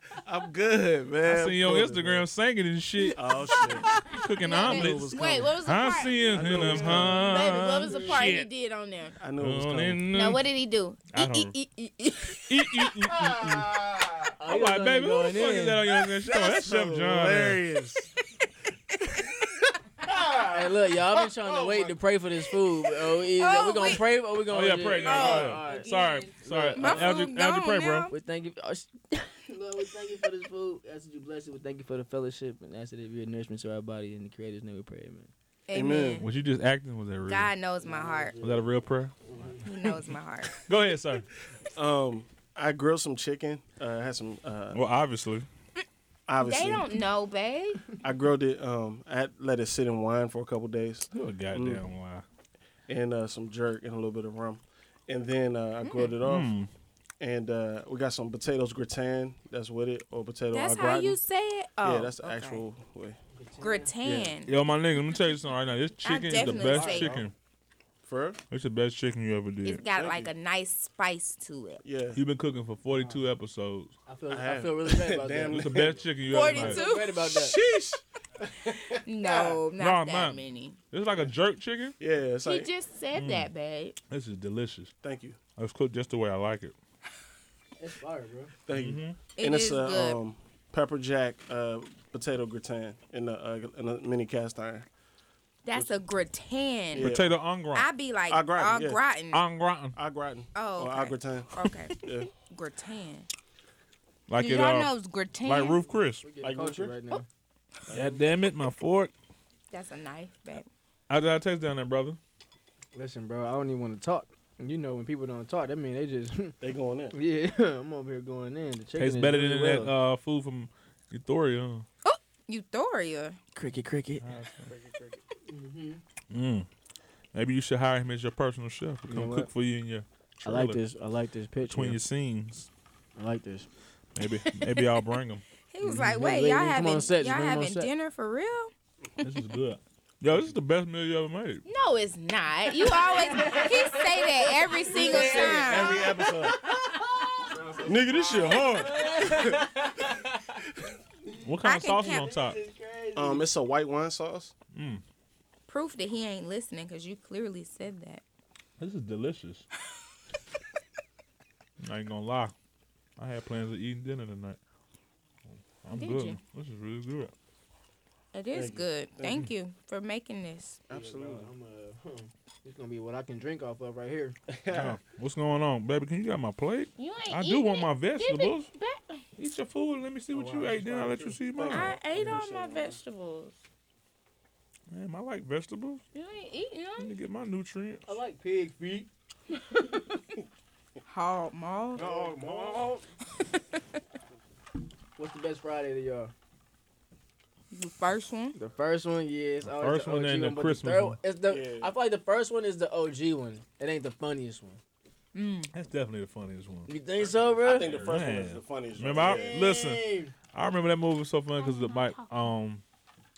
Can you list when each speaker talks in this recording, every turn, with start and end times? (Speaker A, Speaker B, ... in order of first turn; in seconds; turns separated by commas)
Speaker A: 0.2-2.2, Speaker B: 1.2-8.5, Speaker A: 3.1-3.9, Speaker C: 3.8-9.2, Speaker A: 4.6-5.6, Speaker A: 6.2-8.0, Speaker D: 6.6-6.9, Speaker A: 9.2-10.0, Speaker B: 9.4-10.4, Speaker C: 10.1-12.9, Speaker B: 11.1-11.5, Speaker B: 12.5-13.8, Speaker A: 13.1-14.3, Speaker D: 14.4-15.9, Speaker B: 14.4-17.6, Speaker A: 16.2-18.1, Speaker A: 20.0-22.0, Speaker D: 20.4-25.9, Speaker C: 23.3-24.1, Speaker B: 24.5-28.1, Speaker C: 25.0-28.1, Speaker D: 26.4-27.3, Speaker D: 28.1-35.3, Speaker C: 35.7-36.2, Speaker A: 35.7-36.2, Speaker B: 36.2-37.5, Speaker C: 37.3-38.4, Speaker D: 37.8-38.7, Speaker B: 38.4-39.1, Speaker D: 39.2-39.9, Speaker C: 39.6-40.5, Speaker B: 40.5-41.2, Speaker A: 41.7-44.8, Speaker B: 44.7-45.5, Speaker A: 46.3-46.9, Speaker C: 46.4-47.8, Speaker A: 48.0-51.8, Speaker B: 51.1-52.2, Speaker A: 52.9-56.5, Speaker C: 55.8-56.1, Speaker B: 56.2-56.7, Speaker A: 57.2-61.2, Speaker C: 60.5-62.6, Speaker A: 61.8-63.2, Speaker D: 63.3-63.9, Speaker C: 63.6-64.5, Speaker A: 64.0-64.3, Speaker B: 64.5-67.3, Speaker C: 66.0-67.2, Speaker A: 66.4-67.2, Speaker A: 68.0-68.4, Speaker B: 68.5-69.8, Speaker C: 69.6-71.8, Speaker A: 69.9-70.3, Speaker A: 71.8-72.2, Speaker B: 72.1-73.9, Speaker D: 72.9-73.2, Speaker D: 74.1-77.5, Speaker A: 74.3-76.0, Speaker B: 75.4-76.8, Speaker C: 76.3-77.3, Speaker A: 77.2-79.6, Speaker C: 79.0-80.8, Speaker B: 79.8-80.4, Speaker B: 80.9-81.9, Speaker A: 82.0-82.7, Speaker C: 82.4-84.0, Speaker B: 83.1-83.5, Speaker B: 84.1-84.9, Speaker A: 85.0-85.4, Speaker B: 85.6-86.7, Speaker D: 87.8-88.5, Speaker A: 88.7-94.8, Speaker B: 88.7-89.2, Speaker C: 89.4-90.2, Speaker C: 95.6-97.1, Speaker A: 96.9-97.4, Speaker B: 97.0-97.9, Speaker C: 97.7-99.4, Speaker A: 98.3-99.0, Speaker B: 99.3-100.0, Speaker A: 99.9-102.3, Speaker C: 100.5-103.3, Speaker B: 104.3-104.9, Speaker C: 104.4-105.8, Speaker B: 105.4-106.2, Speaker D: 106.2-107.2, Speaker A: 106.4-107.0, Speaker A: 107.9-108.2, Speaker B: 107.9-109.1, Speaker C: 109.7-110.7, Speaker B: 111.1-112.2, Speaker D: 112.9-116.6, Speaker A: 116.6-117.2, Speaker D: 117.1-119.9, Speaker B: 119.0-121.8, Speaker C: 122.0-123.4, Speaker D: 123.5-124.2, Speaker B: 124.2-124.7, Speaker A: 124.7-125.2, Speaker D: 125.5-126.0, Speaker B: 126.3-126.7, Speaker B: 127.3-130.8, Speaker D: 129.1-129.5, Speaker D: 130.4-132.0, Speaker B: 131.6-132.7, Speaker D: 133.2-133.7, Speaker B: 134.1-135.4, Speaker C: 134.5-135.0, Speaker C: 135.7-138.7, Speaker D: 135.8-137.9, Speaker B: 139.2-141.6, Speaker C: 141.7-146.1, Speaker D: 143.0-150.6, Speaker A: 144.9-146.7, Speaker A: 147.5-149.7, Speaker B: 151.4-152.6, Speaker C: 151.6-152.3, Speaker D: 151.9-153.5, Speaker A: 153.1-154.5, Speaker B: 154.7-155.0, Speaker C: 155.7-158.2, Speaker B: 158.8-159.6, Speaker B: 161.8-162.5, Speaker B: 163.2-164.6, Speaker B: 165.8-167.3, Speaker C: 165.9-166.4, Speaker C: 168.3-170.8, Speaker A: 168.5-169.5, Speaker A: 170.9-171.5, Speaker D: 170.9-174.4, Speaker A: 174.5-175.0, Speaker B: 174.7-178.7, Speaker C: 177.0-179.2, Speaker B: 179.4-181.9, Speaker D: 180.3-181.4, Speaker A: 181.2-183.0, Speaker C: 181.7-183.6, Speaker D: 182.1-182.4, Speaker B: 184.9-186.0, Speaker C: 186.1-187.1, Speaker B: 187.0-188.1, Speaker D: 188.1-189.1, Speaker C: 191.1-192.2, Speaker D: 191.9-193.0, Speaker A: 191.9-193.0, Speaker D: 195.2-196.3, Speaker C: 197.7-198.6, Speaker D: 198.5-204.8, Speaker B: 199.6-201.2, Speaker A: 201.5-201.9, Speaker C: 205.3-205.7, Speaker B: 205.7-206.9, Speaker D: 206.9-208.1, Speaker A: 207.2-209.6, Speaker B: 207.8-212.8, Speaker D: 209.1-210.3, Speaker C: 211.6-212.4